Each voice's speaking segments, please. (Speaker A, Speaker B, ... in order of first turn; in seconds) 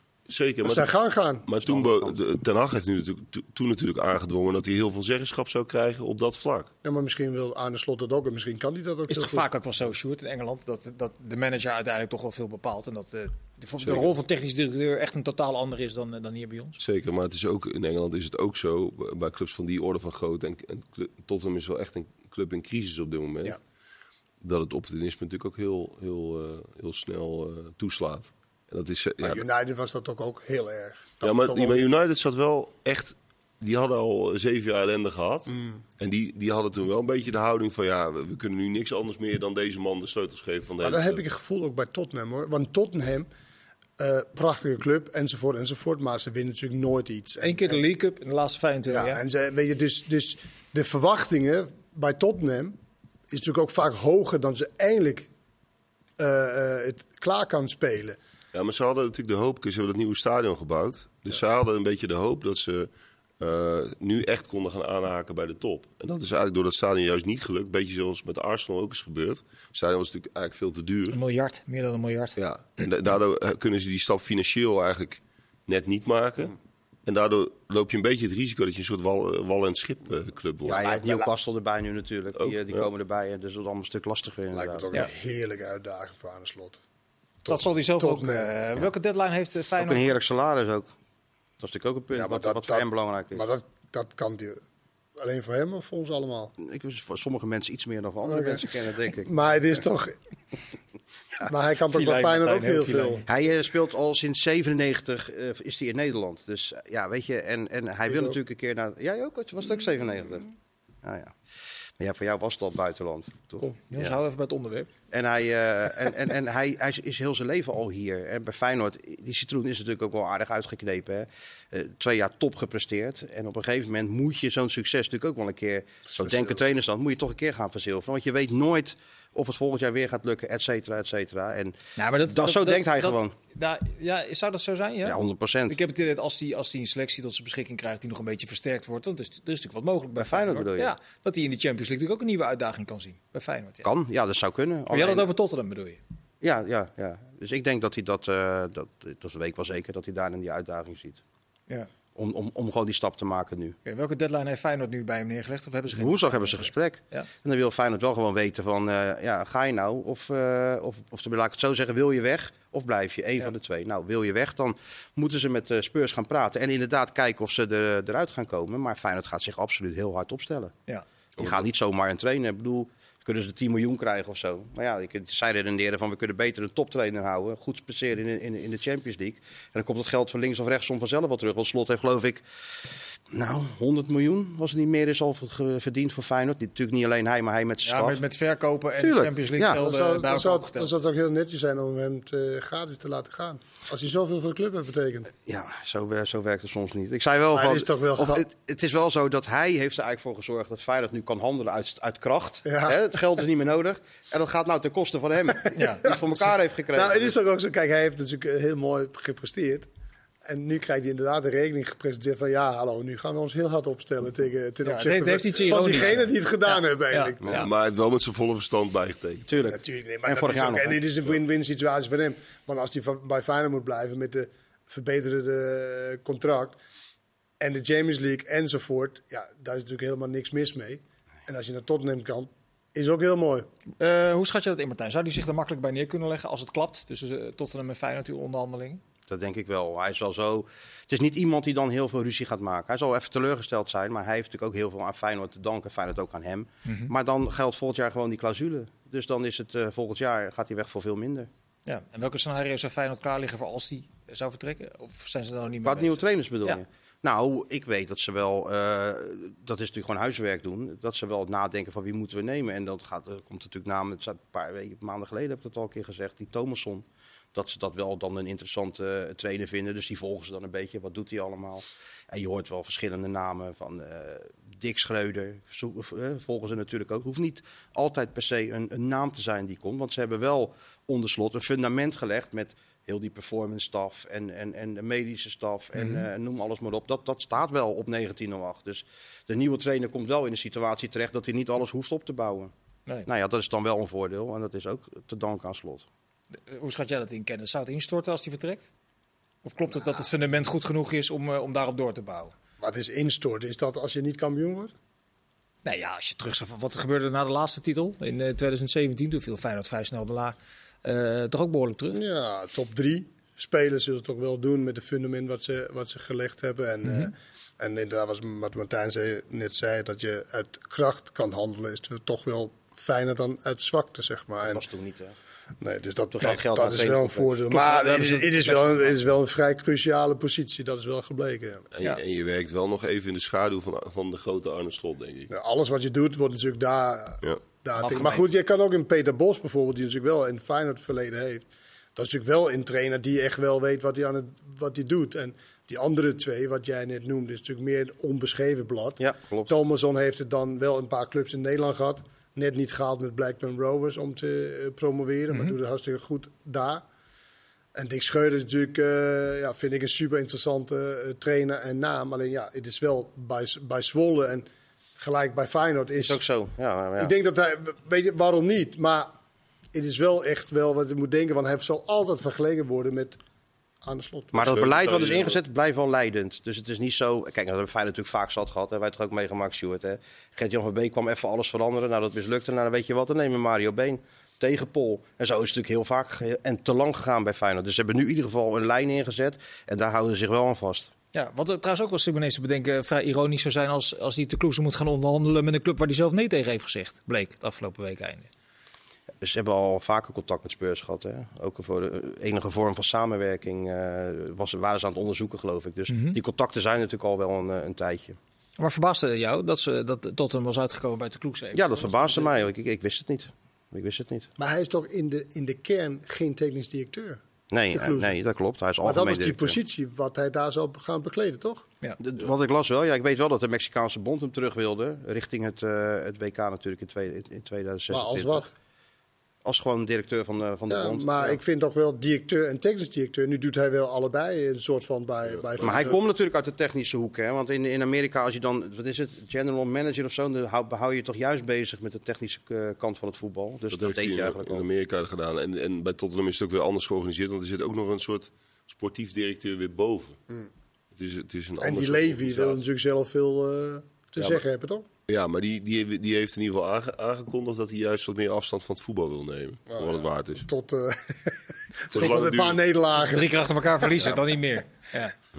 Speaker A: 0.3-0.9, 1.4-6.7, 13.8-14.1, 16.8-23.6, 24.4-29.4, 31.2-41.2, 58.5-71.2, 72.4-76.5, 77.1-80.8, 82.4-82.9, 217.5-219.5, 331.9-335.5, 374.6-375.6, 435.5-436.1, 443.9-450.4, 451.1-452.8, 454.4-454.6, 455.3-460.7, 462.1-462.8
Speaker B: 0.6-1.5, 6.8-9.5, 29.2-31.9, 35.5-35.8, 40.8-43.3, 44.0-47.8, 48.9-52.8, 53.3-55.3, 56.2-58.2, 80.7-81.3, 84.5-86.8, 87.5-88.5, 92.1-94.6, 95.2-96.5, 98.2-98.7, 99.2-100.1, 101.5-103.2, 108.1-108.4, 126.2-126.6, 189.7-195.3, 197.5-198.4, 202.7-203.0, 206.9-209.9, 210.4-217.7, 219.6-226.8, 227.6-233.7, 302.8-304.9, 312.1-324.8, 325.8-331.9, 335.5-357.1, 357.9-364.7, 365.2-366.4, 367.2-369.3, 369.9-373.4, 374.0-374.8, 414.6-417.4, 417.9-418.3, 419.0-421.9, 428.1-428.7, 430.9-436.2, 451.8-455.1, 459.9-464.3
Speaker C: 1.7-2.1, 80.7-84.9, 89.8-90.9, 91.6-93.5, 96.6-99.3, 103.3-110.5, 111.0-111.4, 112.0-114.2, 115.1-131.8, 132.3-133.3, 135.0-135.8, 140.2-140.9, 143.8-145.3, 146.4-151.2, 152.2-153.8, 155.9-170.8, 171.4-188.2, 189.0-189.8, 195.4-207.4, 219.5-221.0, 239.3-251.5, 255.8-292.7, 293.3-296.1, 324.6-325.4, 326.3-327.9, 349.2-349.7, 366.2-367.3, 374.5-391.1, 399.4-408.4, 411.7-414.5, 417.7-419.8, 422.2-428.7, 429.6-431.6, 435.8-444.9
Speaker D: 9.1-16.8, 47.4-49.2, 71.1-72.4, 87.5-90.1, 101.9-103.3, 113.9-114.9, 132.0-143.9, 144.9-146.0, 153.8-157.3, 187.8-190.9, 205.8-206.3, 214.8-217.3, 234.0-239.0, 246.8-247.1, 251.9-256.8, 286.0-286.3, 296.7-298.9, 299.6-302.5, 305.9-312.2, 317.1-317.3, 327.7-329.2, 338.0-338.5, 391.3-398.5, 406.1-406.4, 408.8-412.6, 463.2-465.4